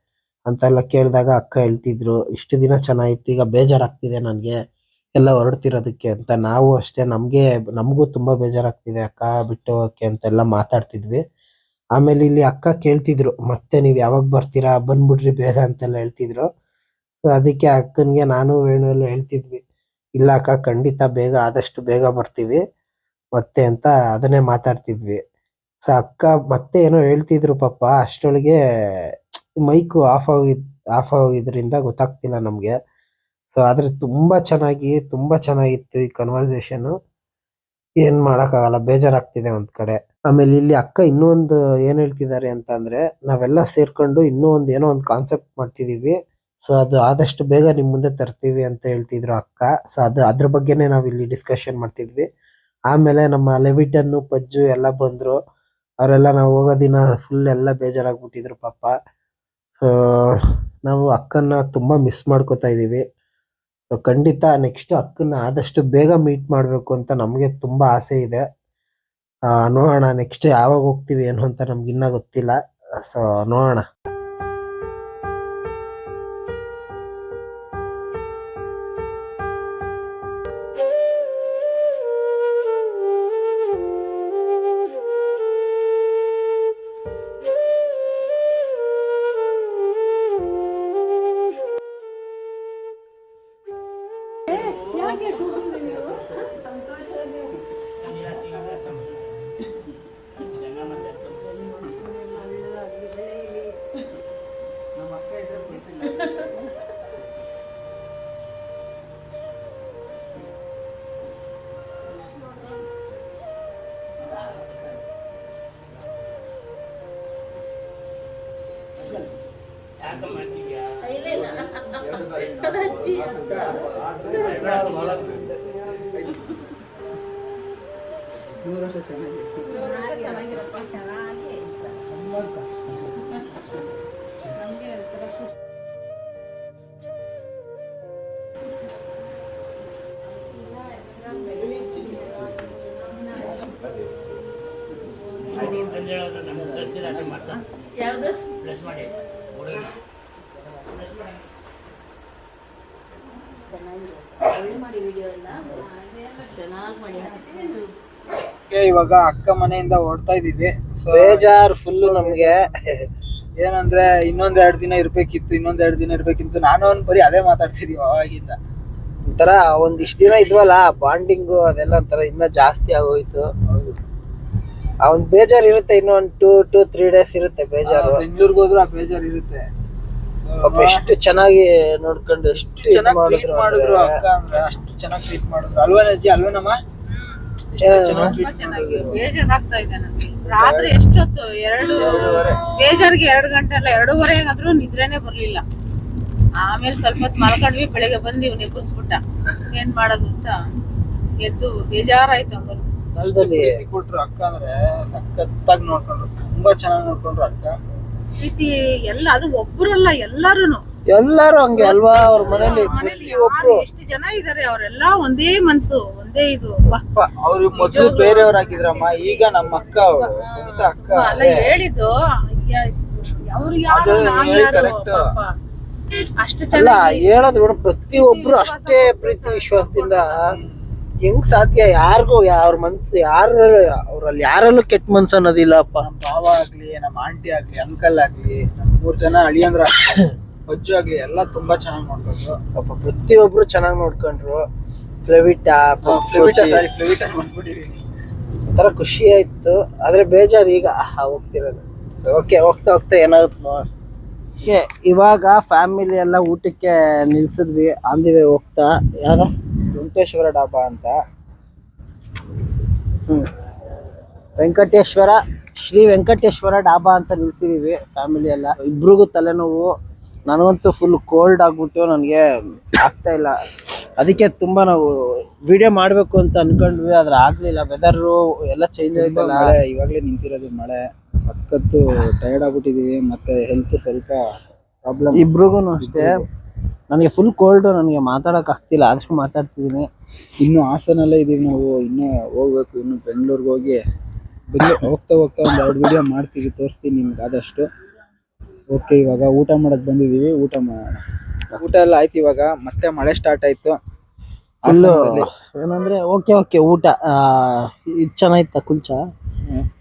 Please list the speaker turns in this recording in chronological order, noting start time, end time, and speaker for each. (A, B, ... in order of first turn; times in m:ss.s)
0:00.5-0:04.5 A
0:05.2-0:11.2 A
0:12.0-0:16.5 A
0:17.3-0:19.6 A
0:20.2-0:22.6 A
0:23.4-0:25.2 A
0:25.9-0:28.6 A
0:29.6-0:32.7 A
0:33.5-0:36.9 A
0:38.0-0:52.2 A
0:52.9-0:55.4 A
0:56.0-0:58.9 A
1:00.8-1:03.0 A
1:03.9-1:08.4 A
1:09.6-1:12.5 A
1:13.1-1:13.8 A
1:34.5-1:36.0 B
1:38.2-1:39.0 C
1:40.5-1:41.5 C
1:45.0-1:46.2 D
2:00.1-2:05.4 C
2:08.6-2:10.1 D
2:25.5-2:29.9 C
2:34.5-2:35.6 C
2:36.3-2:37.6 C
2:38.7-2:42.6 D
2:41.1-2:42.9 A
2:43.6-2:48.6 D
2:49.3-2:53.5 A
2:55.0-2:58.2 A
2:57.8-2:59.6 D
3:00.5-3:01.0 D
3:00.6-3:04.1 A
3:02.5-3:06.8 D
3:07.7-3:09.3 D
3:07.8-3:08.3 A
3:08.4-3:15.6 B
3:10.4-3:11.0 D
3:11.9-3:12.6 D
3:16.6-3:20.6 B
3:21.4-3:22.8 B
3:23.1-3:23.8 A
3:23.2-3:27.8 D
3:28.4-3:30.8 B
3:31.1-3:33.8 A
3:31.7-3:37.0 B
3:32.4-3:33.2 D
3:37.0-3:37.3 A
3:37.4-3:41.7 D
3:37.7-3:45.5 B
3:43.9-3:45.3 D
3:46.4-3:47.3 B
3:46.7-3:50.4 A
3:48.1-3:50.3 B
3:50.6-3:50.8 D
3:51.2-3:56.0 A
3:56.0-4:02.6 D
4:02.7-4:04.6 A
4:05.2-4:06.8 A
4:06.0-4:08.0 D
4:08.7-4:13.8 A
4:14.6-4:19.5 A
4:19.9-4:21.2 D
4:24.6-4:29.9 A
4:30.5-4:32.4 A
4:33.0-4:33.5 A
4:34.2-4:35.0 A
4:35.7-4:39.7 A
4:39.1-4:44.4 D
4:45.0-4:45.5 D
4:45.3-4:46.3 A
4:46.0-4:46.4 D
4:47.1-4:50.0 A
4:50.6-4:54.0 D
4:54.7-4:57.9 D
4:58.9-5:01.2 D
5:01.8-5:04.0 D
5:04.8-5:05.5 D
5:04.8-5:09.2 A